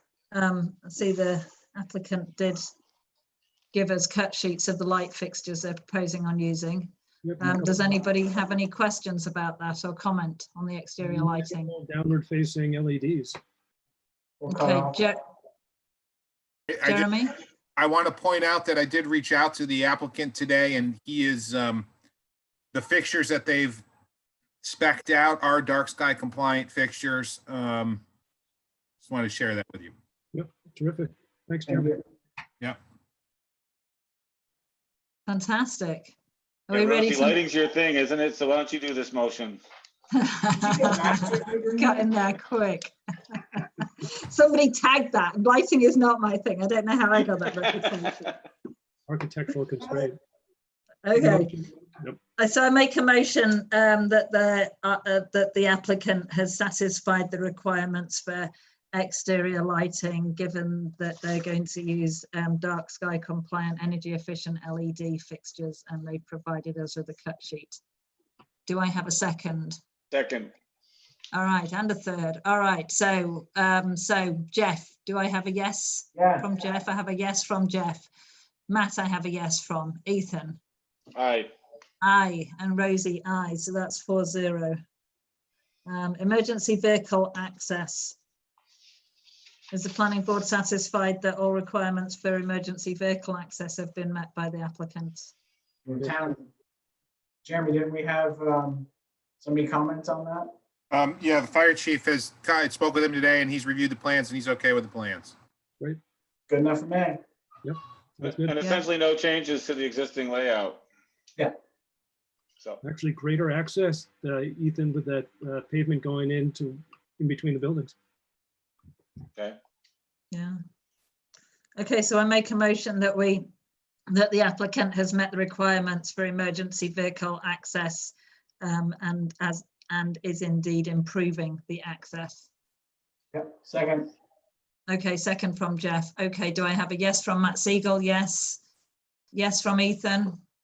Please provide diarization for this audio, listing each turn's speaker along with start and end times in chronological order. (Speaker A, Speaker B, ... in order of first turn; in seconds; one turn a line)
Speaker A: 0.3-2.7
Speaker A: 3.7-11.7
Speaker B: 7.2-7.9
Speaker B: 11.0-13.4
Speaker C: 14.4-15.0
Speaker A: 14.5-15.2
Speaker D: 16.7-17.1
Speaker A: 16.8-17.4
Speaker D: 17.8-21.9
Speaker D: 22.7-23.8
Speaker D: 24.6-28.0
Speaker D: 29.0-29.9
Speaker B: 30.3-32.0
Speaker C: 31.7-32.0
Speaker A: 35.3-36.2
Speaker A: 36.7-37.4
Speaker E: 36.7-39.6
Speaker A: 40.1-48.3
Speaker C: 40.5-42.0
Speaker B: 49.1-50.2
Speaker A: 51.0-51.5
Speaker B: 51.1-52.2
Speaker A: 52.4-67.8
Speaker A: 68.7-69.8
Speaker E: 70.1-70.5
Speaker A: 71.3-78.1
Speaker C: 76.2-76.5
Speaker A: 78.7-80.6
Speaker E: 81.1-81.5
Speaker A: 82.0-84.8
Speaker A: 85.8-88.2
Speaker A: 89.7-95.3
Speaker C: 95.8-96.5
Speaker C: 97.4-98.9
Speaker C: 99.4-100.5
Speaker D: 100.9-105.3
Speaker C: 106.5-107.2
Speaker B: 107.6-108.7
Speaker E: 108.2-110.8
Speaker B: 112.8-117.9
Speaker A: 120.3-120.6
Speaker A: 121.8-123.5
Speaker A: 124.1-132.5
Speaker C: 133.3-134.1
Speaker A: 134.9-138.6
Speaker A: 139.3-140.4